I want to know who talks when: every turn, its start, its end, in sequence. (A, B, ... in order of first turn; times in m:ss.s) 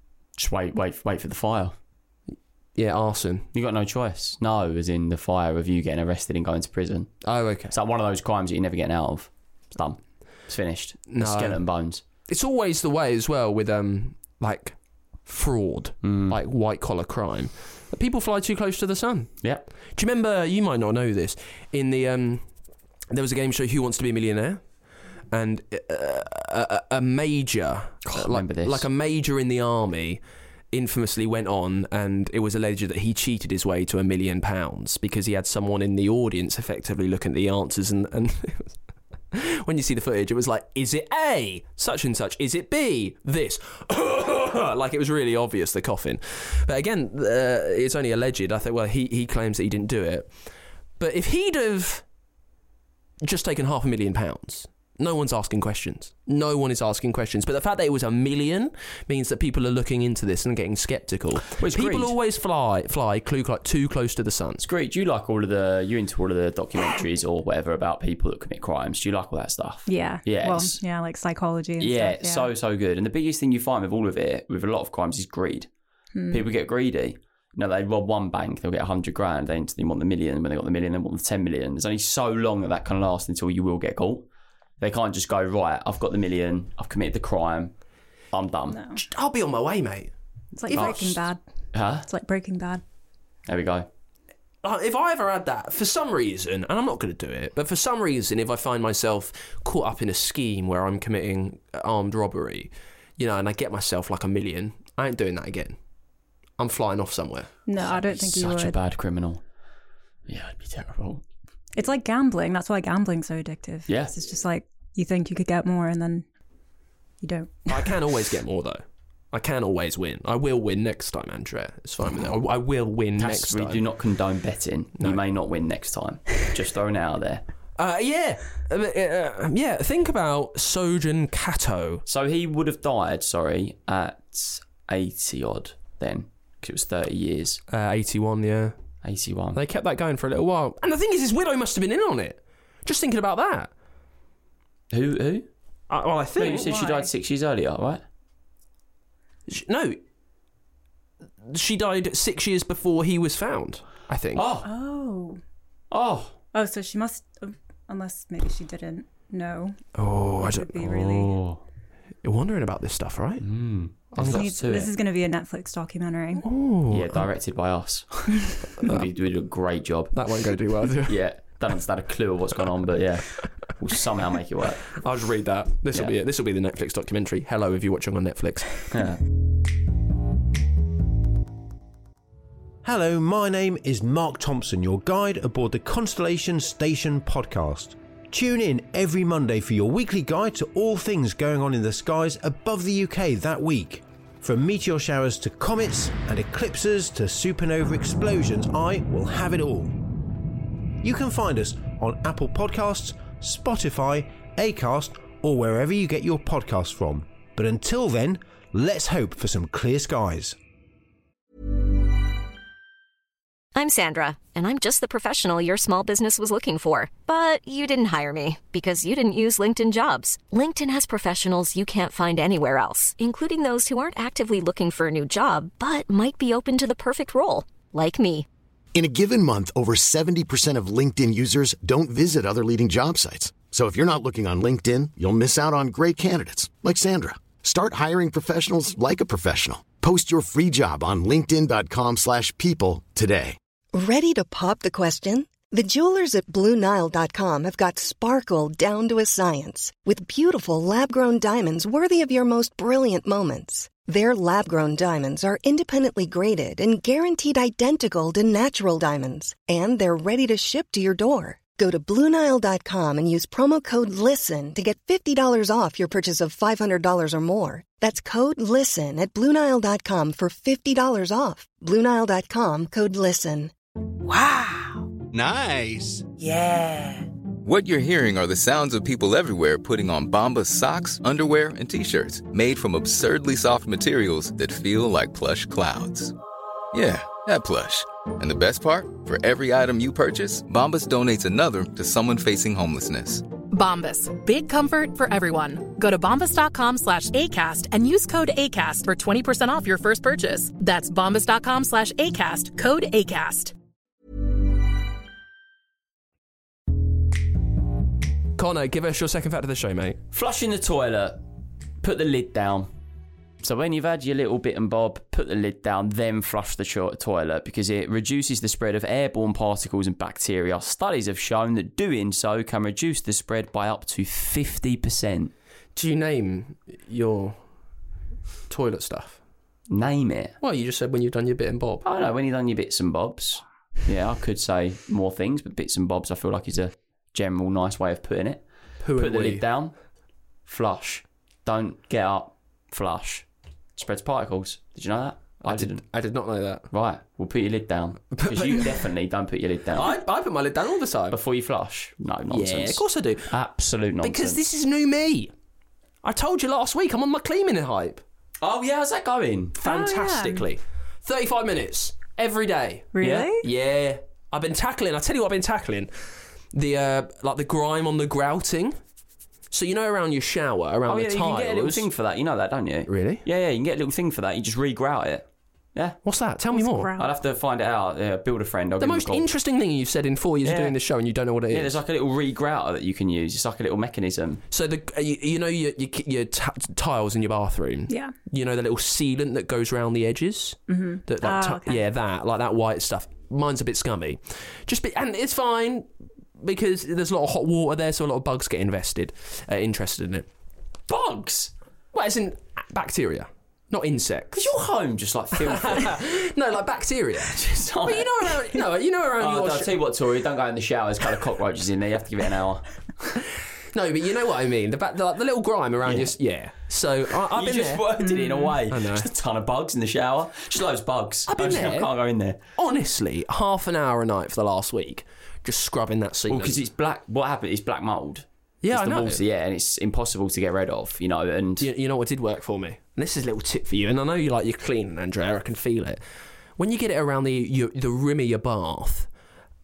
0:00.4-0:01.8 A
0:02.8-0:03.5 B
0:03.5-0:12.0 A
0:07.2-0:07.7 B
0:11.1-0:11.6 B
0:12.3-0:19.4 B
0:16.0-0:16.4 A
0:19.9-0:22.5 B
0:23.1-0:24.7 B
0:25.3-0:30.2 B
0:28.0-0:28.9 A
0:30.7-0:38.7 B
0:39.3-0:50.3 B
0:51.0-0:52.0 B
0:53.2-1:04.7 B
1:01.5-1:02.2 A
1:04.6-1:10.8 A
1:09.9-1:12.5 C
1:11.8-1:15.7 A
1:16.1-1:16.4 C
1:16.3-1:24.2 A
1:24.8-1:27.7 A
1:28.3-1:28.8 A
1:28.7-1:29.0 C
1:29.0-1:30.1 B
1:30.6-1:31.4 C
1:30.7-1:31.2 B
1:30.7-1:31.2 A
1:31.7-1:32.1 A
1:32.1-1:32.8 C
1:33.5-1:33.9 A
1:34.6-1:45.8 B
1:46.6-1:47.5 B
1:47.7-1:48.8 C
1:47.8-1:49.4 A
1:50.3-1:51.2 A
1:51.8-1:56.3 C
1:53.9-1:54.1 A
1:57.2-1:57.9 C
1:57.7-2:03.8 B
2:03.2-2:07.4 A
2:07.8-2:12.0 B
2:12.1-2:17.6 A
2:17.7-2:18.8 B
2:19.0-2:19.6 A
2:19.5-2:23.7 B
2:24.9-2:25.5 A
2:25.9-2:26.7 B
2:26.4-2:28.0 A
2:26.4-2:27.1 C
2:29.5-2:30.0 B
2:31.4-2:34.5 B
2:34.4-2:34.7 A
2:34.6-2:35.4 C
2:35.9-2:36.4 A
2:36.5-2:39.8 C
2:40.0-2:40.8 B
2:40.4-2:41.3 C
2:40.8-2:41.6 A
2:42.2-2:43.4 B
2:43.4-2:44.9 A
2:44.1-2:44.5 B
2:44.3-2:46.4 C
2:46.4-2:47.3 B
2:46.9-2:50.1 A
2:48.8-2:49.1 B
2:50.1-2:51.2 B
2:51.0-2:54.9 A
2:55.0-2:58.9 B
2:58.9-2:59.2 A
3:02.8-3:20.0 D
3:21.0-3:30.6 D
3:33.8-3:48.5 E
3:48.9-4:03.6 F
4:03.9-4:33.7 G
4:35.3-4:36.2 H
4:37.6-4:46.3 H
4:46.9-4:53.4 H
4:53.7-5:03.7 I
5:08.6-5:10.2 B
5:10.3-5:11.4 A
5:12.0-5:12.9 A
5:13.6-5:25.5 A
5:26.0-5:27.6 B
5:28.7-5:29.4 B
5:29.9-5:30.6 A
5:30.6-5:32.0 B
5:32.0-5:38.6 A
5:39.0-5:39.6 B
5:39.2-5:39.9 A
5:40.7-5:43.4 A
5:44.0-5:46.0 A
5:45.6-5:46.9 B
5:46.9-5:50.2 A
5:48.3-5:49.0 B
5:50.0-5:51.4 B
5:51.3-5:54.6 A
5:52.5-5:53.5 B
5:54.2-5:55.5 B
5:56.2-5:58.2 B
5:58.6-5:59.8 A
5:59.8-6:06.1 B
5:59.8-6:00.6 C
6:03.2-6:03.6 C
6:06.7-6:09.0 B
6:09.7-6:12.1 B
6:11.1-6:16.2 A
6:13.1-6:13.4 B
6:16.2-6:17.1 B
6:16.7-6:17.3 C
6:17.2-6:19.5 A
6:19.0-6:22.0 B
6:20.6-6:21.0 A
6:21.7-6:24.6 A
6:24.7-6:36.1 B
6:28.1-6:28.3 C
6:30.9-6:32.0 C
6:36.6-6:40.5 B
6:41.1-6:41.7 A
6:42.1-6:44.7 B
6:44.5-6:46.2 A
6:45.6-6:50.0 B
6:47.4-6:48.8 A
6:49.4-6:53.3 A
6:53.9-6:58.1 B
6:56.0-6:56.3 A
6:57.5-7:02.6 A
6:58.2-6:58.7 C
6:58.9-6:59.3 B
7:01.5-7:02.1 B
7:02.8-7:06.8 B
7:06.5-7:11.9 A
7:08.8-7:09.4 B
7:11.8-7:16.2 B
7:16.8-7:19.3 B